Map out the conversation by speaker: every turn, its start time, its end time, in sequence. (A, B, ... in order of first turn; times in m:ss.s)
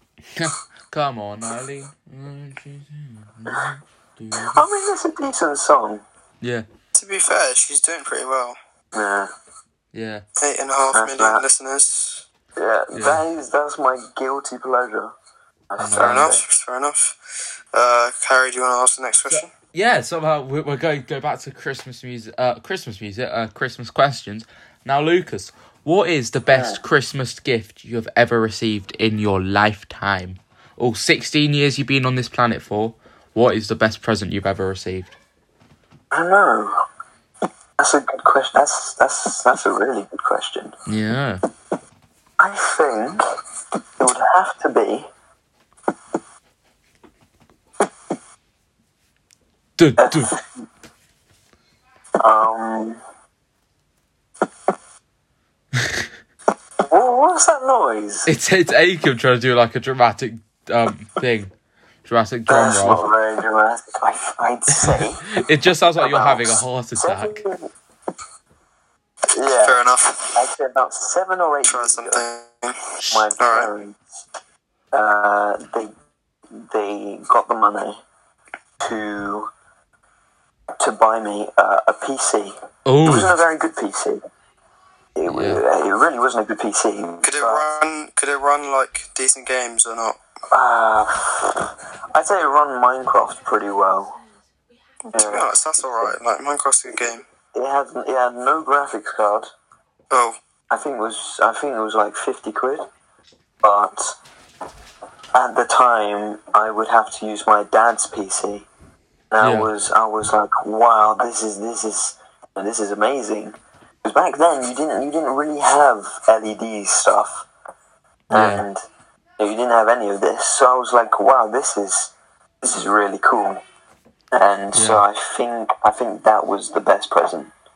0:00.4-0:04.6 A
0:04.4-0:06.0 B
0:06.4-0:06.6 A
0:06.9-0:08.6 C
0:08.9-0:09.3 B
0:09.9-0:10.2 A
0:10.4-0:12.2 C
0:10.9-0:11.4 B
0:12.6-0:15.1 B
0:12.9-0:13.2 A
0:15.7-0:16.4 B
0:15.8-0:16.3 A
0:15.9-0:17.2 C
0:17.7-0:19.5 C
0:19.3-0:35.1 A
0:26.5-0:26.8 B
0:36.1-0:36.8 B
0:37.8-0:40.8 B
0:40.9-0:41.4 A
0:42.4-0:43.2 B
0:44.0-0:45.1 B
0:49.8-0:50.3 A
0:50.0-0:50.4 B
0:52.2-0:53.0 B
0:55.8-0:56.0 A
0:56.8-0:58.3 B
0:58.2-1:01.5 A
1:02.0-1:03.0 A
1:02.5-1:05.2 B
1:04.8-1:07.4 A
1:05.9-1:07.7 B
1:09.3-1:09.8 B
1:09.6-1:10.4 C
1:10.3-1:12.2 B
1:11.6-1:12.8 C
1:13.0-1:13.3 A
1:13.1-1:14.0 B
1:13.4-1:13.7 C
1:14.9-1:15.9 B
1:16.6-1:18.0 B
1:18.8-1:19.5 B
1:20.8-1:22.5 B
1:22.8-1:23.3 A
1:23.0-1:24.2 B
1:25.2-1:27.7 B
1:25.2-1:25.6 A
1:27.2-1:30.2 C
1:30.5-1:34.2 B
1:35.1-1:36.2 B
1:35.1-1:37.2 C
1:37.5-1:39.5 B
1:40.1-1:40.4 C
1:40.7-1:42.8 B
1:43.6-1:44.2 B
1:45.3-1:48.7 B
1:49.3-1:57.5 B
1:49.4-1:49.7 A
1:58.3-1:58.7 A
1:58.3-1:58.8 B
1:59.4-2:03.6 B
2:04.3-2:07.5 B
2:04.7-2:05.0 A